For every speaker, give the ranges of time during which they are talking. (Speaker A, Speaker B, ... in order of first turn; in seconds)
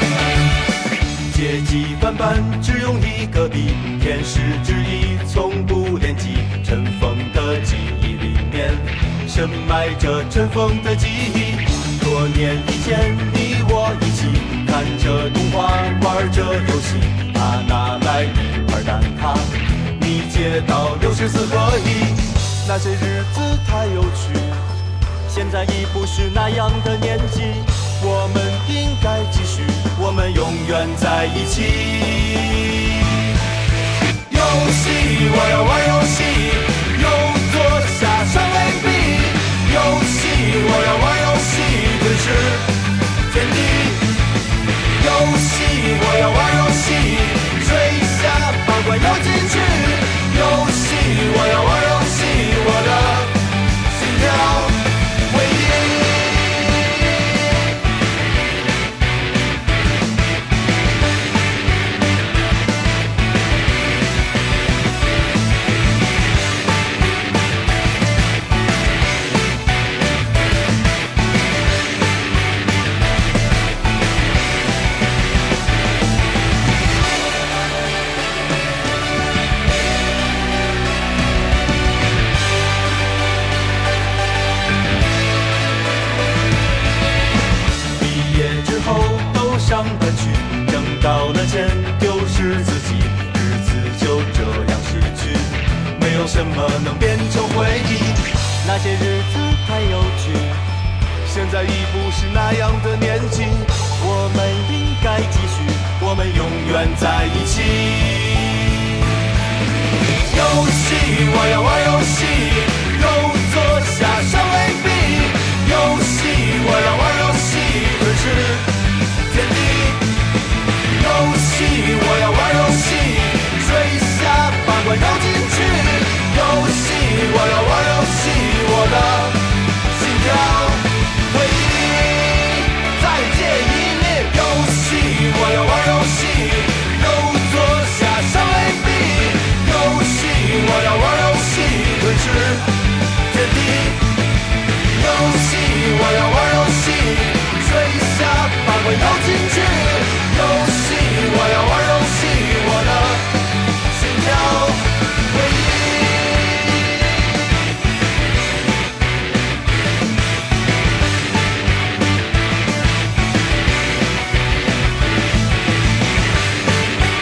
Speaker A: 1.3-24.6, 25.3-33.3, 34.3-42.7, 43.3-44.2, 44.9-56.7, 88.0-100.6, 101.2-109.0, 110.2-118.7, 119.3-120.1, 120.8-142.7, 143.3-144.1, 144.9-153.3, 153.9-156.6